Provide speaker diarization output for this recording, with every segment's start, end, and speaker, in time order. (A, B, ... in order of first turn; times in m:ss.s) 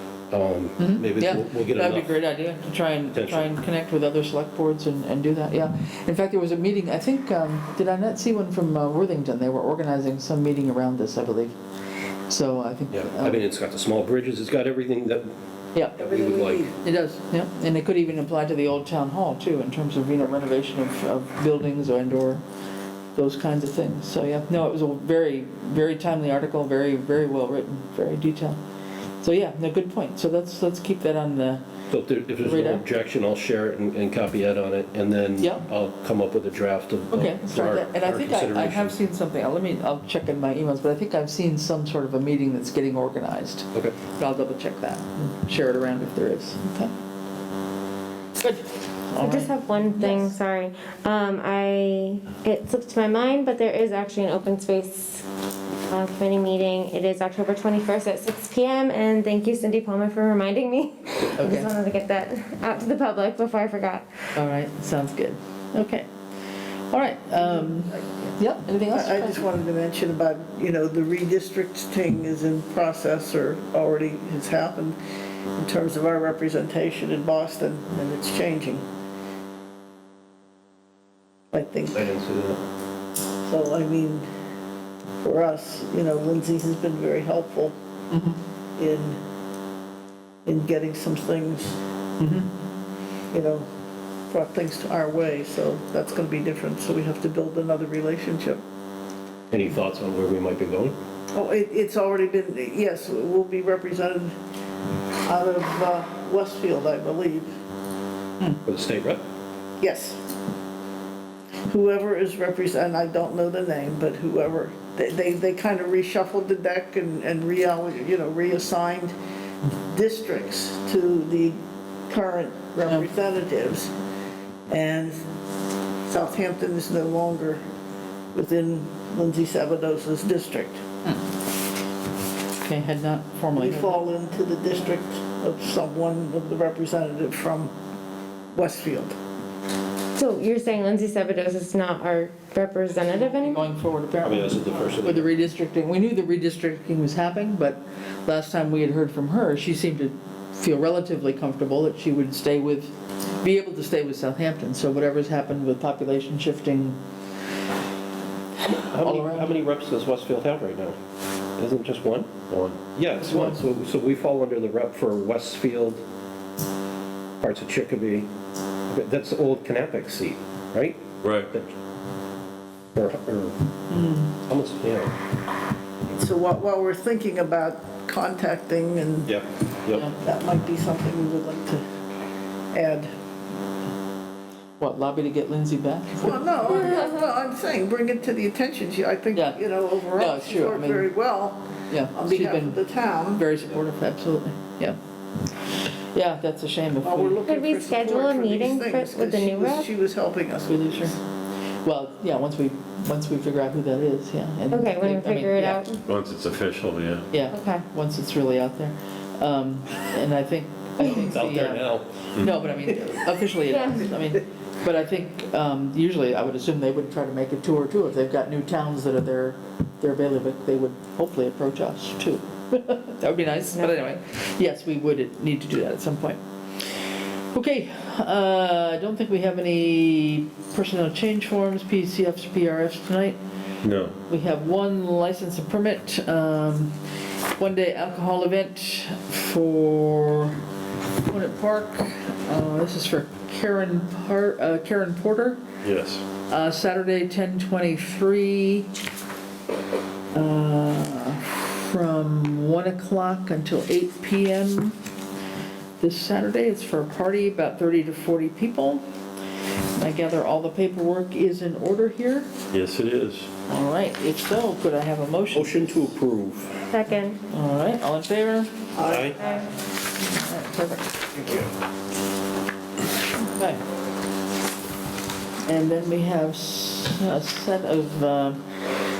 0:00.3-0:02.2 A
0:00.8-0:11.5 B
0:03.1-0:03.5 A
0:12.3-0:13.4 B
0:12.9-0:15.3 A
0:16.0-0:16.7 A
0:16.0-0:16.7 C
0:16.8-0:22.4 B
0:23.1-0:28.6 B
0:29.2-0:31.6 B
0:31.9-0:39.0 A
0:32.4-0:32.8 B
0:35.4-0:35.6 B
0:37.1-0:46.9 B
0:48.4-0:50.3 B
0:49.2-0:55.2 D
0:55.9-1:04.0 D
1:01.4-1:01.7 B
1:04.3-1:06.0 B
1:06.9-1:09.4 B
1:07.4-1:08.2 C
1:08.9-1:15.0 C
1:15.6-1:18.8 C
1:21.5-1:22.1 C
1:21.9-1:22.6 A
1:23.4-1:24.2 C
1:25.2-1:27.7 C
1:28.1-1:28.4 B
1:28.8-1:29.2 C
1:30.4-1:31.8 C
1:32.2-1:32.5 B
1:33.3-1:33.7 C
1:34.3-1:38.6 C
1:39.5-1:41.0 A
1:41.3-1:44.3 C
1:45.2-1:47.5 C
1:48.6-1:49.2 A
1:49.8-1:50.2 C
1:51.7-1:59.1 C
1:59.8-2:03.9 C
2:04.7-2:05.2 C
2:06.1-2:07.6 C
2:08.3-2:10.8 C
2:12.6-2:14.0 B
2:13.6-2:17.7 C
2:18.5-2:19.1 C
2:20.2-2:23.6 D
2:23.0-2:37.0 B
2:24.2-2:25.3 A
2:38.7-2:41.0 A
2:38.9-2:39.6 B
2:41.6-2:46.0 A
2:43.1-2:43.6 B
2:47.4-2:48.3 A
2:48.9-2:51.7 A
2:53.0-2:53.6 A
2:53.9-2:54.3 B
2:54.4-2:55.1 A
2:56.1-2:59.3 C
2:59.2-3:00.0 A
3:00.2-3:01.8 C
3:02.7-3:03.1 C
3:04.8-3:07.1 B
3:06.2-3:13.4 C
3:09.3-3:09.6 B
3:10.1-3:11.1 B
3:11.9-3:12.8 B
3:13.3-3:15.0 B
3:15.7-3:17.4 B
3:17.0-3:21.2 C
3:17.5-3:19.9 D
3:20.7-3:21.1 B
3:21.8-3:25.8 B
3:24.7-3:26.0 D
3:26.1-3:27.3 E
3:27.3-3:46.4 B
3:27.5-3:27.8 D
3:31.1-3:32.2 A
3:47.5-3:53.4 B
3:53.8-3:54.1 A
3:54.3-3:56.9 B
3:57.6-4:00.6 B
4:01.2-4:05.6 B
4:05.8-4:06.2 E
4:06.5-4:08.9 B
4:10.3-4:15.0 B
4:16.0-4:19.0 B
4:19.9-4:22.5 B
4:22.7-4:23.5 E
4:23.7-4:26.0 B
4:25.5-4:26.9 A
4:26.9-4:27.4 D
4:27.5-4:28.9 B
4:28.9-4:29.4 C
4:29.0-4:29.4 A
4:30.2-4:31.1 B
4:31.3-4:31.7 A
4:33.5-4:33.8 B
4:35.6-4:38.6 B